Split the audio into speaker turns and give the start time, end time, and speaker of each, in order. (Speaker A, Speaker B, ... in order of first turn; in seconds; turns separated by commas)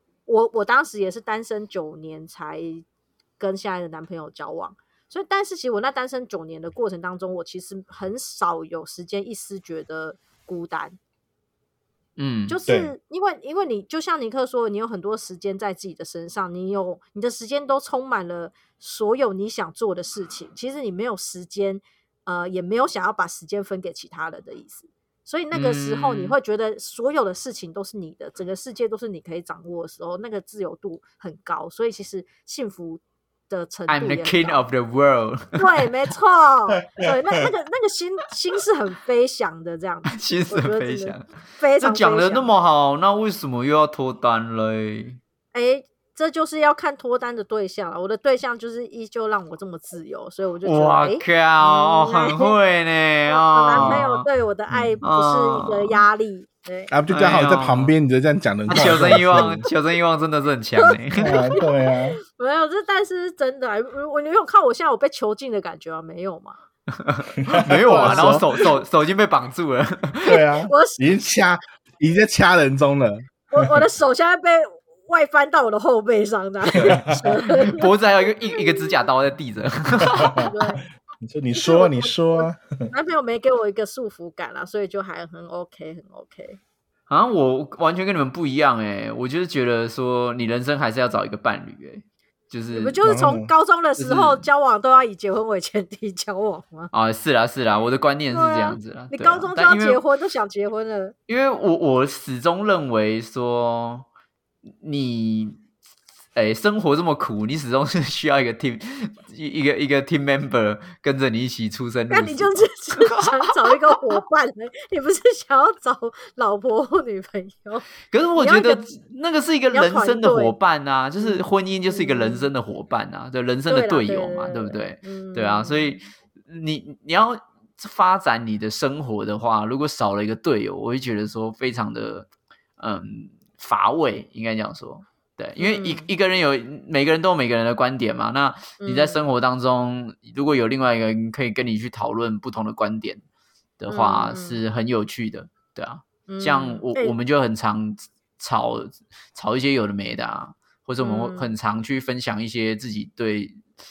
Speaker A: 0.3-2.9, Speaker A: 3.4-11.0, Speaker B: 12.2-12.6, Speaker A: 12.5-34.6, Speaker C: 12.7-12.9, Speaker B: 25.5-26.4, Speaker B: 33.9-35.9, Speaker A: 35.6-42.5, Speaker B: 40.1-41.2, Speaker B: 41.8-45.2, Speaker A: 45.5-52.5, Speaker B: 50.6-54.2, Speaker A: 53.3-56.9, Speaker C: 53.7-54.0, Speaker C: 54.7-55.0, Speaker B: 55.0-56.0, Speaker C: 56.9-59.6, Speaker B: 57.1-57.9, Speaker B: 58.7-61.5, Speaker A: 60.8-61.6, Speaker C: 61.2-62.2, Speaker A: 62.2-66.6, Speaker B: 67.0-70.4, Speaker A: 67.5-68.7, Speaker C: 67.5-68.5, Speaker C: 70.2-73.7, Speaker A: 70.3-71.0, Speaker A: 73.5-77.9, Speaker C: 76.8-77.2, Speaker B: 77.4-80.5, Speaker A: 78.5-78.9, Speaker C: 80.2-80.5, Speaker A: 80.3-80.8, Speaker C: 81.2-82.9, Speaker A: 81.5-86.6, Speaker B: 87.1-93.0, Speaker A: 92.7-96.9, Speaker C: 93.0-93.5, Speaker B: 94.0-94.4, Speaker B: 96.9-100.0, Speaker A: 98.3-101.1, Speaker B: 101.3-104.0, Speaker B: 104.8-105.6, Speaker B: 106.3-114.1, Speaker A: 112.1-118.8, Speaker B: 118.1-143.2, Speaker A: 119.7-120.5, Speaker A: 121.2-122.5, Speaker A: 123.7-126.0, Speaker A: 135.6-136.1, Speaker A: 138.8-139.2, Speaker B: 143.8-153.6, Speaker A: 143.9-144.6, Speaker A: 146.3-147.1, Speaker A: 151.0-151.5